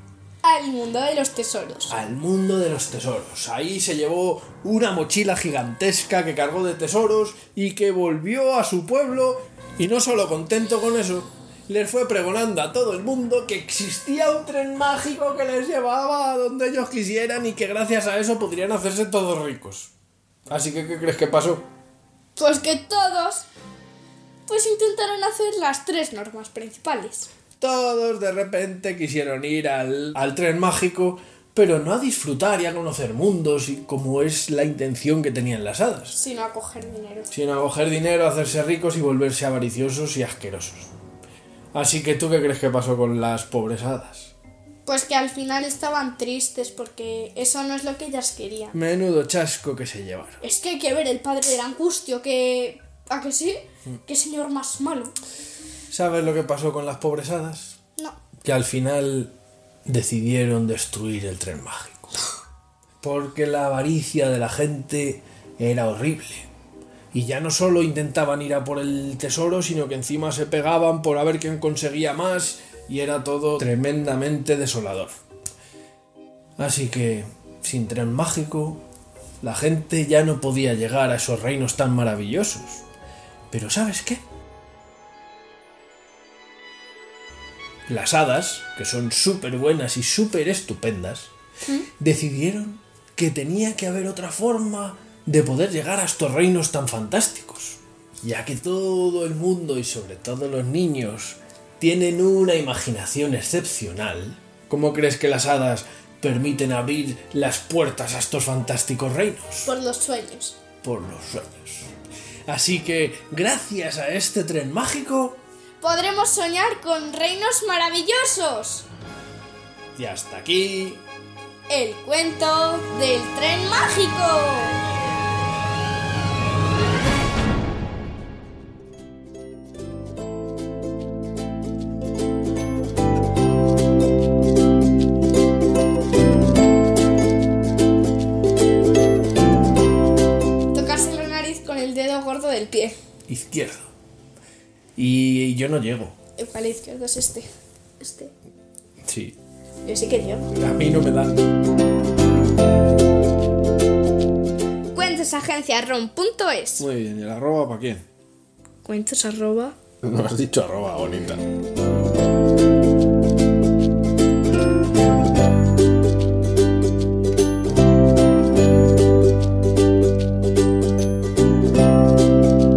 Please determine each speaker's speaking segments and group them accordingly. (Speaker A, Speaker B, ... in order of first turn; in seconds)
Speaker A: 0.4-1.9, 22.4-23.5, 24.5-27.3, 36.1-37.3, 44.9-48.8, 50.4-55.1, 109.7-110.6, 115.8-118.9, 121.7-124.8, 140.7-143.0, 146.4-147.5, 148.0-148.3, 149.8-150.5, 154.9-156.9, 158.8-159.8
Speaker B: 1.9-19.9, 20.5-21.6, 27.6-36.2, 37.3-40.9, 41.7-44.3, 48.7-50.4, 55.9-57.8, 58.4-59.3, 59.9-62.2, 63.0-66.5, 67.1-75.2, 76.6-78.8, 79.4-82.8, 83.5-84.2, 87.9-91.3, 92.0-109.7, 110.8-111.9, 112.5-115.4, 120.0-121.0, 143.3-143.9, 145.0-146.2, 149.1-149.4, 150.5-151.4, 156.8-158.1, 160.0-161.4